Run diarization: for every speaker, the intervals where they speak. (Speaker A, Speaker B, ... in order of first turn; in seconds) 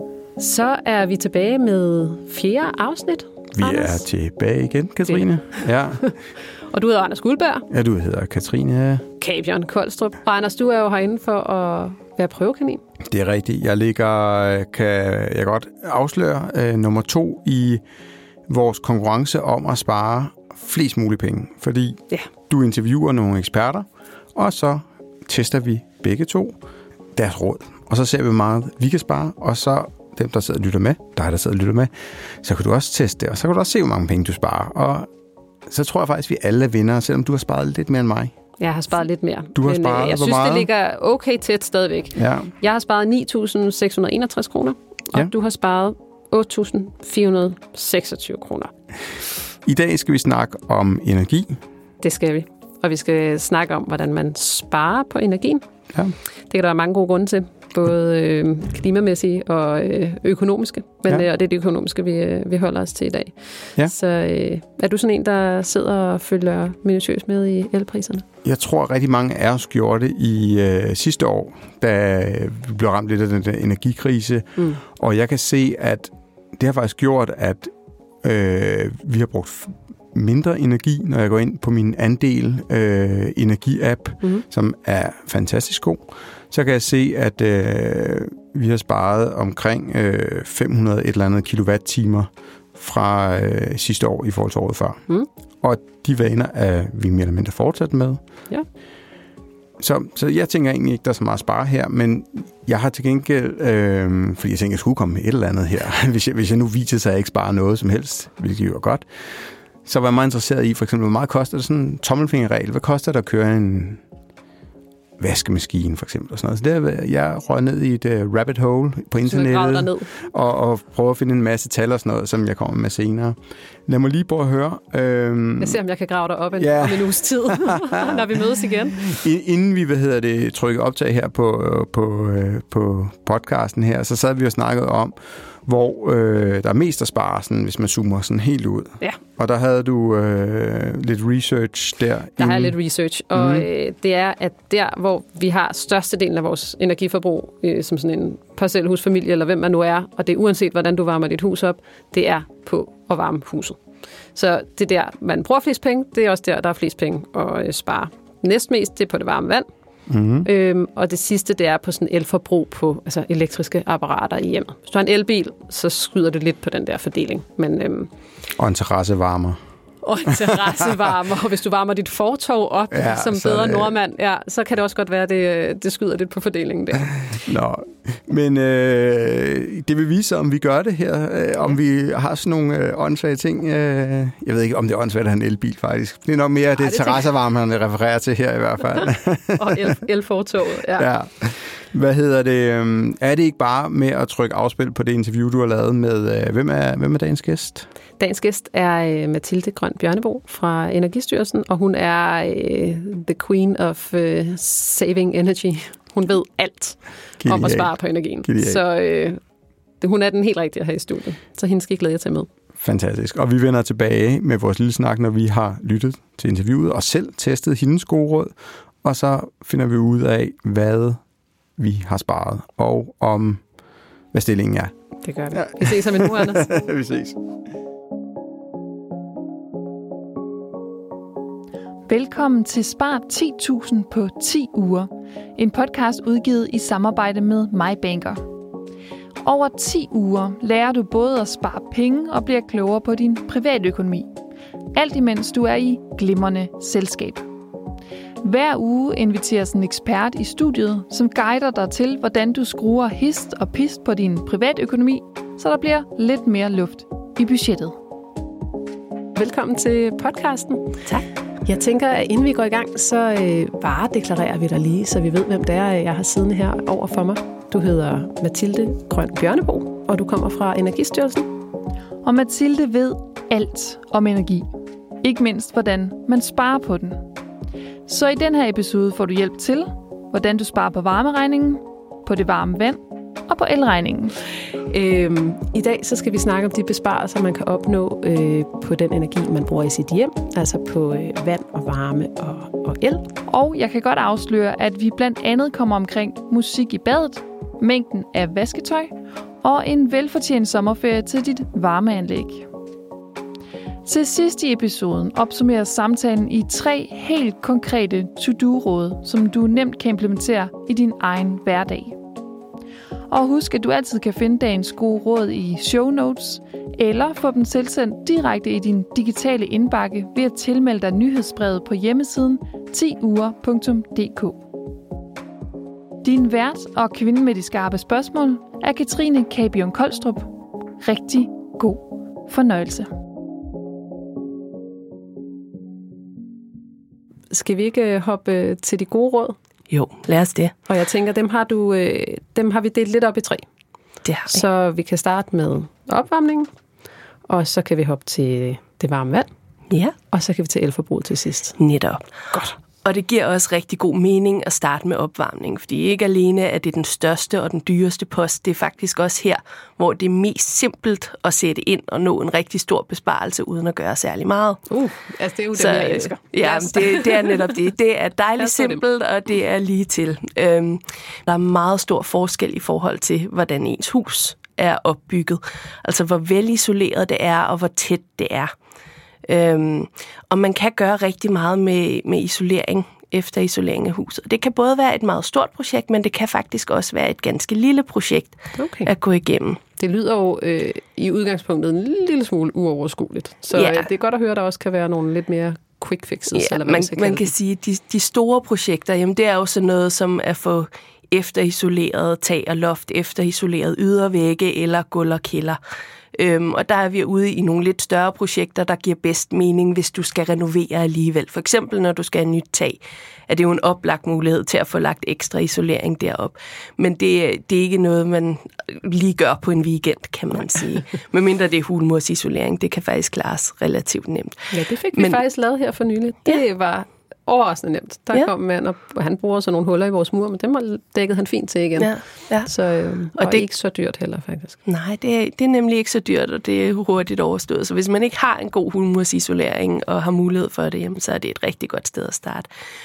Speaker A: 0.4-4.0, 5.1-6.1, 6.7-7.7, 9.2-12.8, 38.6-48.7, 52.0-55.6, 56.5-68.3, 119.3-120.1, 125.6-129.1, 142.4-153.8, 154.3-159.7, 160.4-168.1, 170.0-177.4, 186.8-187.2, 189.6-191.1, 198.2-209.4, 210.0-212.5, 225.2-226.7, 259.4-260.9, 261.6-271.5, 284.9-293.2, 337.5-339.6, 340.9-343.6, 344.5-346.7, 347.5-349.5, 350.3-351.8, 364.9-367.7, 368.6-369.0, 388.8-389.1, 390.0-397.5, 424.7-432.1, 432.6-434.8
Speaker B: 3.5-6.1, 7.7-9.1, 13.0-17.8, 18.5-26.6, 27.1-35.1, 35.7-38.3, 39.5-40.7, 42.1-42.5, 49.6-51.6, 68.4-95.0, 95.6-98.2, 99.8-114.0, 115.2-125.8, 126.6-127.9, 129.0-142.8, 143.3-143.7, 160.1-160.5, 168.6-169.6, 170.4-170.7, 172.9-173.9, 177.4-189.9, 191.0-197.9, 207.4-208.8, 212.8-221.2, 221.8-223.6, 224.3-224.9, 225.5-227.4
Speaker C: 232.1-238.4, 239.4-244.3, 244.9-247.4, 248.4-258.0, 272.2-274.7, 275.2-277.2, 278.1-284.4, 293.5-302.7, 304.1-312.2, 313.3-324.6, 326.2-333.1
Speaker D: 339.9-340.8, 344.2-344.6, 349.9-350.1, 351.8-352.2, 353.0-364.9, 365.7-378.7, 379.5-389.8, 393.7-394.1, 396.5-405.8, 406.4-425.4, 432.0-432.7, 433.4-433.6, 434.9-442.7